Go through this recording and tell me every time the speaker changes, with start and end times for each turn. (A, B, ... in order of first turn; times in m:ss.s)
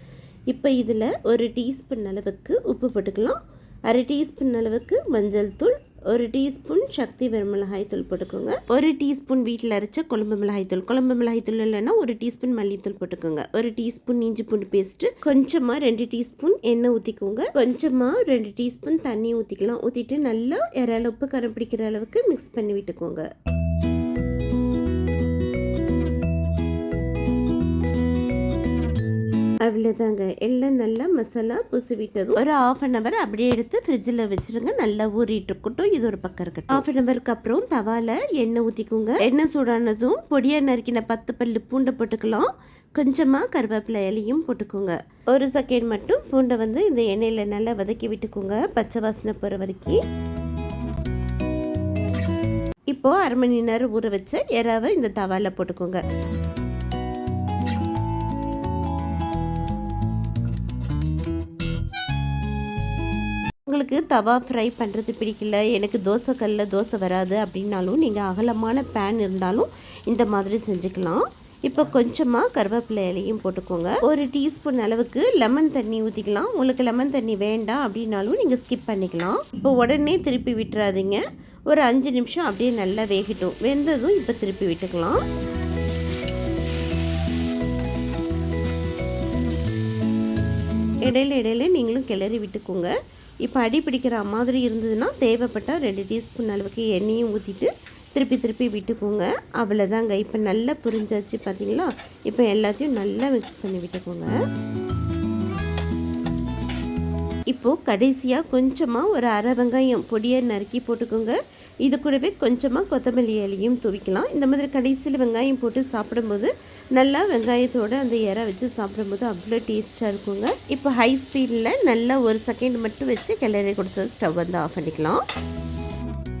0:00.5-0:23.3 A
0:29.6-0:50.0 A
0:52.9-0:56.0 A
1:03.7-1:25.2 A
1:31.0-1:44.3 A
1:47.5-2:05.2 A